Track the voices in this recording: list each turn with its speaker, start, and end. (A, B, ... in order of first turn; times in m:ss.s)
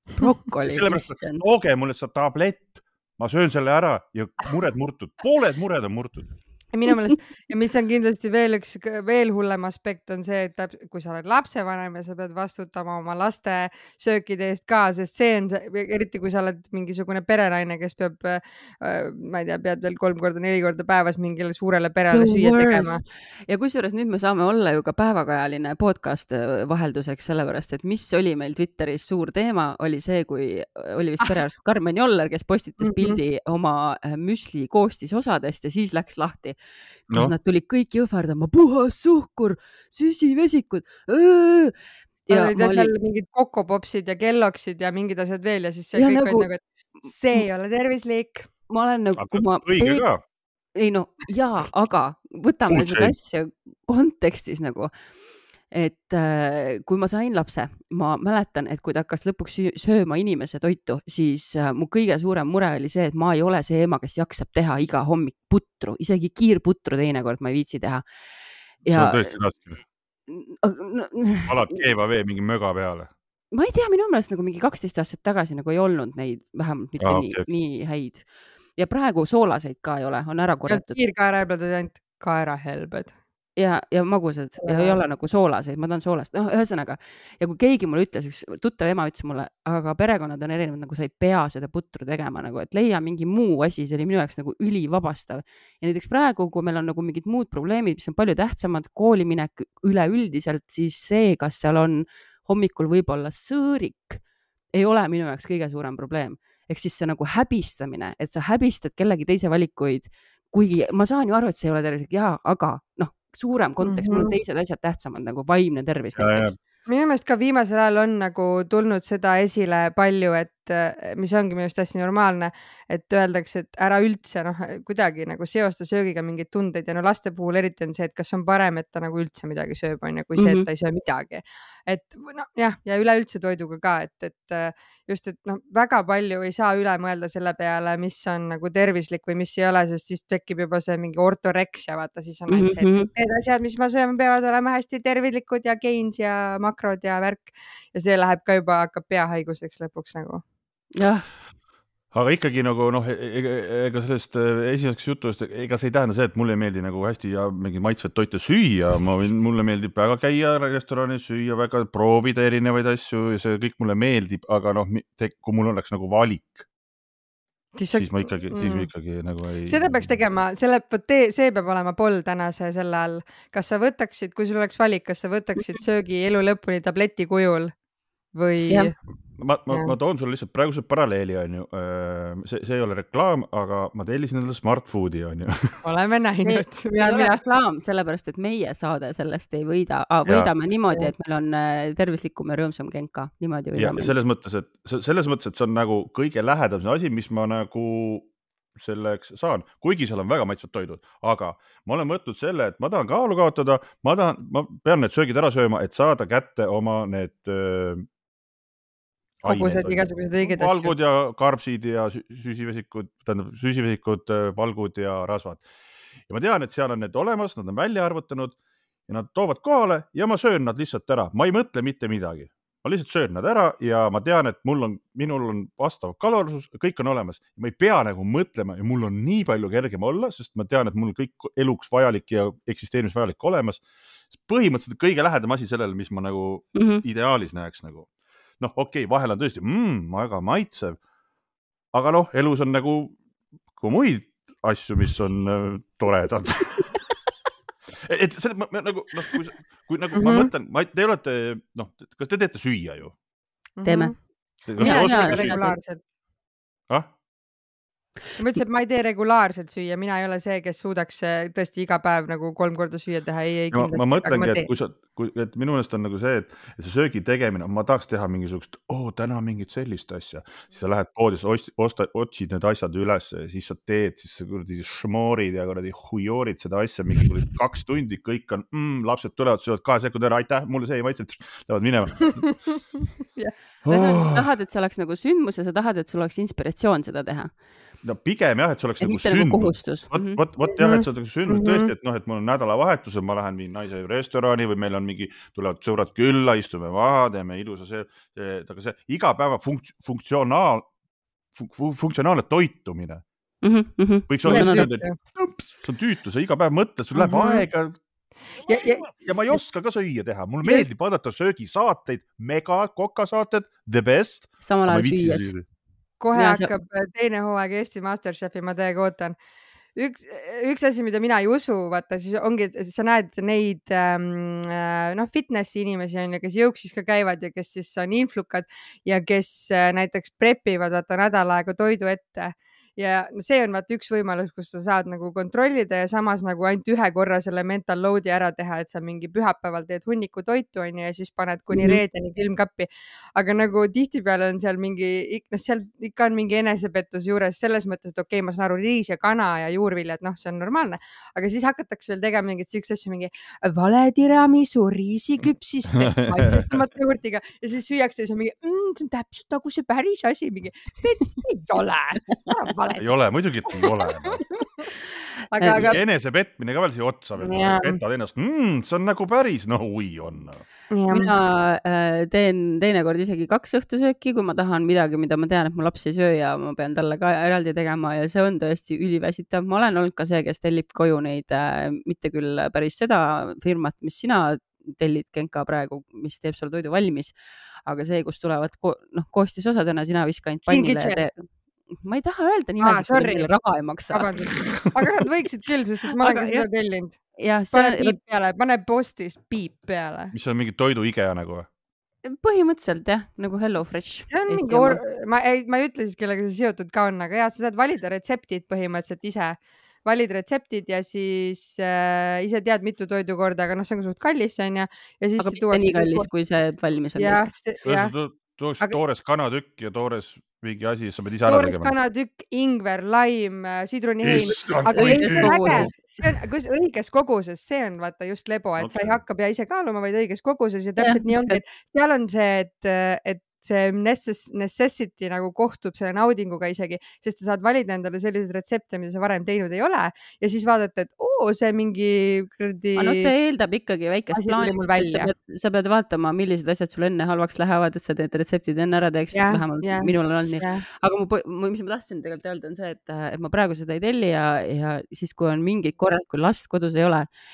0:00.2-0:01.4 A
0:00.6-0:06.3 B
0:06.7-0:23.0 C
0:22.1-0:36.6 A
0:32.8-0:33.2 C
0:37.1-0:41.7 A
0:42.3-0:42.9 A
0:42.3-0:48.5 C
0:46.0-0:46.5 A
0:48.7-0:50.1 A
0:49.2-0:50.2 B
0:50.8-0:54.9 A
0:52.7-0:53.1 B
0:55.7-1:08.0 A
1:08.8-1:09.3 A
1:08.9-1:09.8 B
1:10.3-1:11.8 A
1:11.5-1:13.1 B
1:13.5-1:21.0 A
1:17.0-1:17.4 B
1:20.7-1:23.2 C
1:23.6-1:44.2 A
1:24.6-1:25.0 C
1:44.8-1:56.6 A
1:53.8-1:54.4 C
1:56.2-1:56.6 B
1:56.9-2:30.4 C
2:10.4-2:10.7 A
2:22.5-2:23.1 A
2:31.0-2:31.3 A
2:32.1-2:46.7 B
2:47.8-2:48.9 C
2:47.9-2:50.1 B
2:49.7-2:57.7 C
2:58.3-2:58.9 C
2:59.4-3:05.8 B
2:59.7-3:00.0 C
3:05.8-3:07.4 C
3:06.4-3:14.2 A
3:10.3-3:10.5 B
3:13.8-3:28.1 B
3:29.4-3:30.9 C
3:29.4-3:35.6 B
3:36.3-3:38.6 B
3:39.1-3:53.8 B
3:54.4-3:58.1 B
3:56.8-3:57.0 A
3:58.6-4:01.0 B
4:01.9-4:03.2 B
4:03.8-4:07.1 B
4:08.0-4:13.2 B
4:10.2-4:10.5 C
4:13.8-4:14.2 C
4:13.8-4:14.1 A
4:14.7-4:15.5 B
4:14.8-4:16.0 C
4:14.8-4:15.8 A
4:18.4-4:24.7 C
4:23.7-4:42.4 B
4:42.2-4:43.5 C
4:43.8-4:44.4 B
4:43.9-4:47.5 A
4:48.0-5:00.9 B
4:49.0-4:50.4 A
4:50.7-4:51.9 C
5:01.6-5:03.2 B
5:03.6-5:04.9 A
5:04.3-5:08.0 B
5:04.5-5:05.2 C
5:07.2-5:07.7 C
5:08.7-5:09.6 C
5:08.7-5:15.6 B
5:14.6-5:15.5 A
5:16.2-5:19.4 C
5:16.3-5:16.7 A
5:20.0-6:03.1 C
5:41.7-5:42.0 A
5:55.9-5:56.8 B
6:03.0-6:04.4 B
6:03.8-6:04.9 C
6:05.5-6:06.0 C
6:05.6-6:06.0 A
6:05.8-6:10.6 B
6:07.4-6:08.0 C
6:10.9-6:11.3 C
6:11.1-6:31.3 A
6:30.7-6:31.2 C
6:32.0-6:34.4 A
6:32.8-6:33.5 C
6:34.1-6:37.2 C
6:36.2-6:36.7 A
6:37.4-6:38.2 A
6:37.7-6:40.3 C
6:40.3-6:41.7 B
6:42.2-6:45.0 A
6:44.3-6:56.3 C
6:55.4-6:57.4 A
6:57.2-6:58.1 C
6:57.8-7:01.9 B
7:01.5-7:23.3 C
7:04.2-7:05.9 B
7:04.9-7:06.3 A
7:08.8-7:09.2 B
7:11.0-7:11.6 A
7:23.0-7:37.3 A
7:24.3-7:25.3 C
7:29.3-7:30.8 C